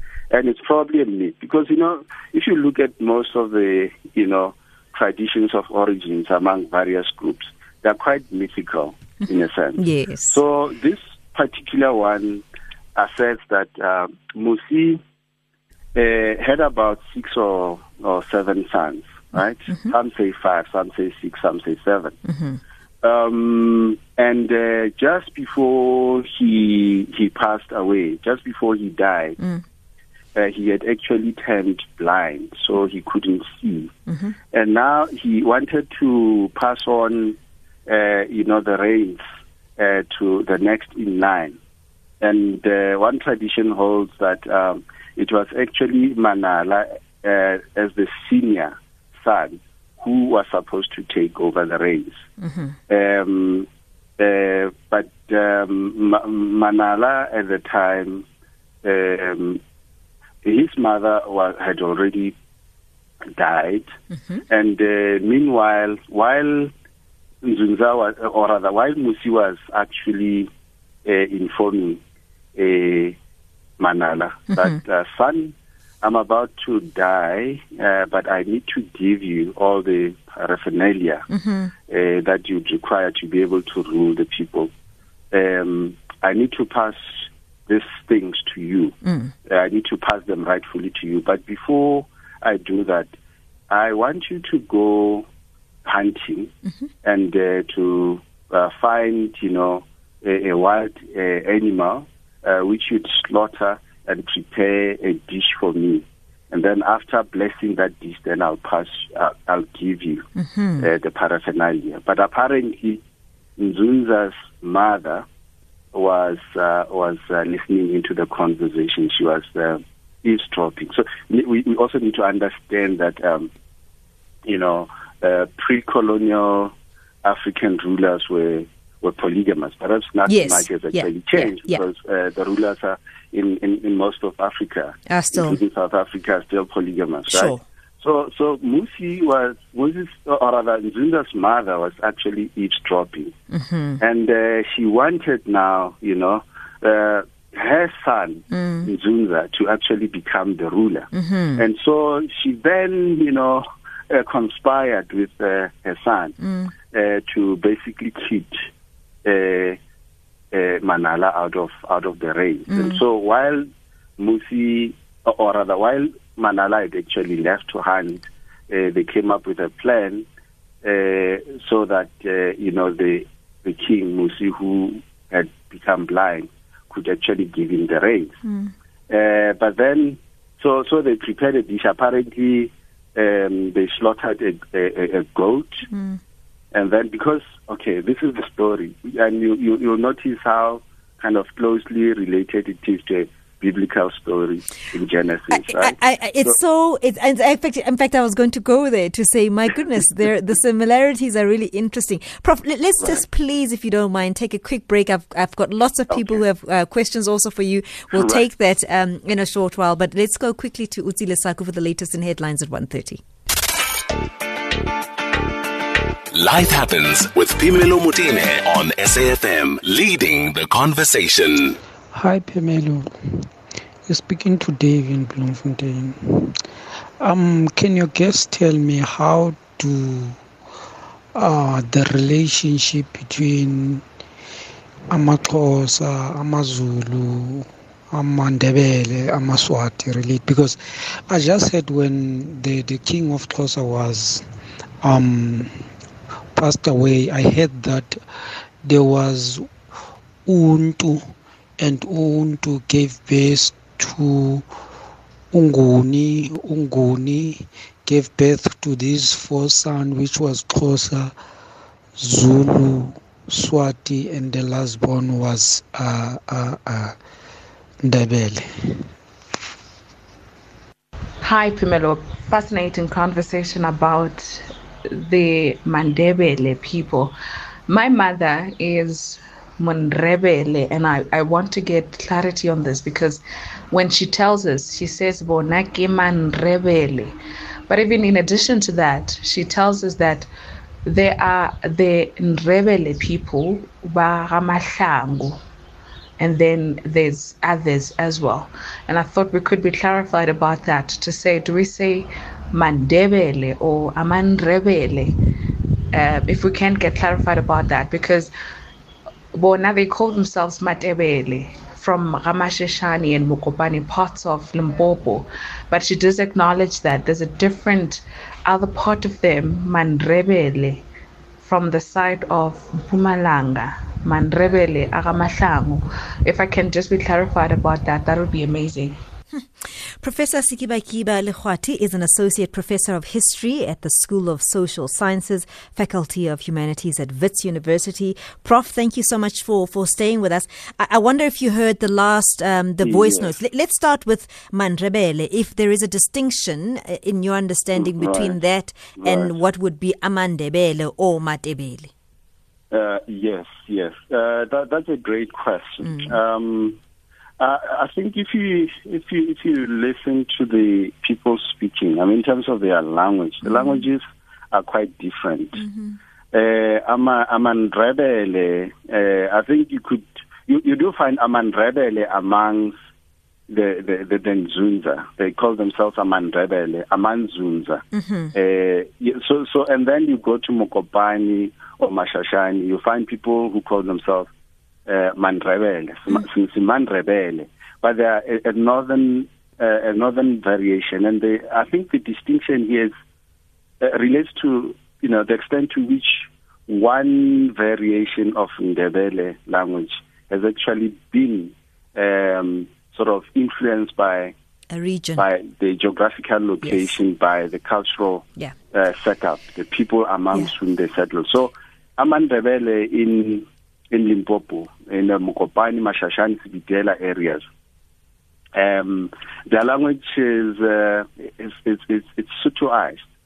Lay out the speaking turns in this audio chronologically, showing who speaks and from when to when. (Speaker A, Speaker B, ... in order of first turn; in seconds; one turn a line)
Speaker A: 0.3-12.4
Speaker B: 9.2-10.4
Speaker A: 12.9-15.0
Speaker A: 15.9-22.2
Speaker B: 22.3-22.6
Speaker A: 23.0-29.4
Speaker A: 30.3-33.9
Speaker B: 34.1-34.3
Speaker A: 34.5-39.2
Speaker A: 39.8-41.6
Speaker A: 42.2-52.2
Speaker B: 52.4-52.8
Speaker A: 52.9-53.7
Speaker A: 54.2-58.2
Speaker A: 58.8-59.6
Speaker A: 60.4-62.4
Speaker A: 63.3-63.9
Speaker B: 64.1-64.4
Speaker A: 64.5-66.7
Speaker A: 67.4-70.5
Speaker A: 71.0-72.0
Speaker A: 72.5-73.2
Speaker A: 73.8-81.2
Speaker B: 81.3-81.7
Speaker A: 81.9-84.7
Speaker A: 85.3-93.1
Speaker B: 89.0-89.3
Speaker A: 93.7-95.2
Speaker A: 95.8-96.5
Speaker A: 97.0-110.3
Speaker B: 110.3-110.9
Speaker A: 110.8-113.0
Speaker A: 113.6-115.2
Speaker A: 115.9-123.5
Speaker A: 124.5-126.7
Speaker A: 127.2-143.3
Speaker B: 130.2-131.8
Speaker B: 135.1-135.6
Speaker B: 137.3-137.6
Speaker B: 143.5-144.0
Speaker A: 144.0-156.3
Speaker B: 148.5-148.9
Speaker B: 151.1-151.6
Speaker B: 156.4-156.7
Speaker A: 156.9-158.6
Speaker A: 159.2-159.8
Speaker A: 160.5-163.7
Speaker B: 162.7-163.0
Speaker A: 164.2-170.2
Speaker A: 170.8-178.3
Speaker B: 178.4-178.7
Speaker A: 179.1-185.9
Speaker B: 185.9-186.2
Speaker A: 186.7-196.6
Speaker B: 195.5-213.2
Speaker A: 206.1-206.4
Speaker A: 208.1-208.4
Speaker C: 216.3-221.8
Speaker D: 222.1-223.5
Speaker D: 224.1-226.6
Speaker D: 227.2-230.4
Speaker D: 231.3-234.0
Speaker D: 235.1-244.5
Speaker D: 245.0-245.8
Speaker D: 246.5-248.2
Speaker D: 248.8-249.7
Speaker D: 250.4-254.7
Speaker D: 255.5-261.3
Speaker D: 262.2-267.2
Speaker D: 268.0-269.1
Speaker E: 271.4-277.3
Speaker E: 277.9-287.4
Speaker E: 287.9-290.5
Speaker E: 291.0-295.6
Speaker E: 296.4-305.4
Speaker E: 306.1-308.5
Speaker E: 309.5-321.0
Speaker E: 321.6-329.2
Speaker B: 329.5-352.1
Speaker A: 343.0-343.5
Speaker A: 348.0-348.6
Speaker A: 349.2-349.5
Speaker A: 352.9-357.0
Speaker B: 356.0-356.3
Speaker A: 357.6-365.8
Speaker B: 363.6-364.0
Speaker B: 365.8-366.2
Speaker A: 366.5-372.9
Speaker A: 373.7-384.5
Speaker B: 378.1-378.5
Speaker A: 385.1-393.1
Speaker A: 394.0-404.5
Speaker B: 404.9-405.5
Speaker A: 405.4-417.6
Speaker B: 406.8-407.1
Speaker A: 418.7-423.3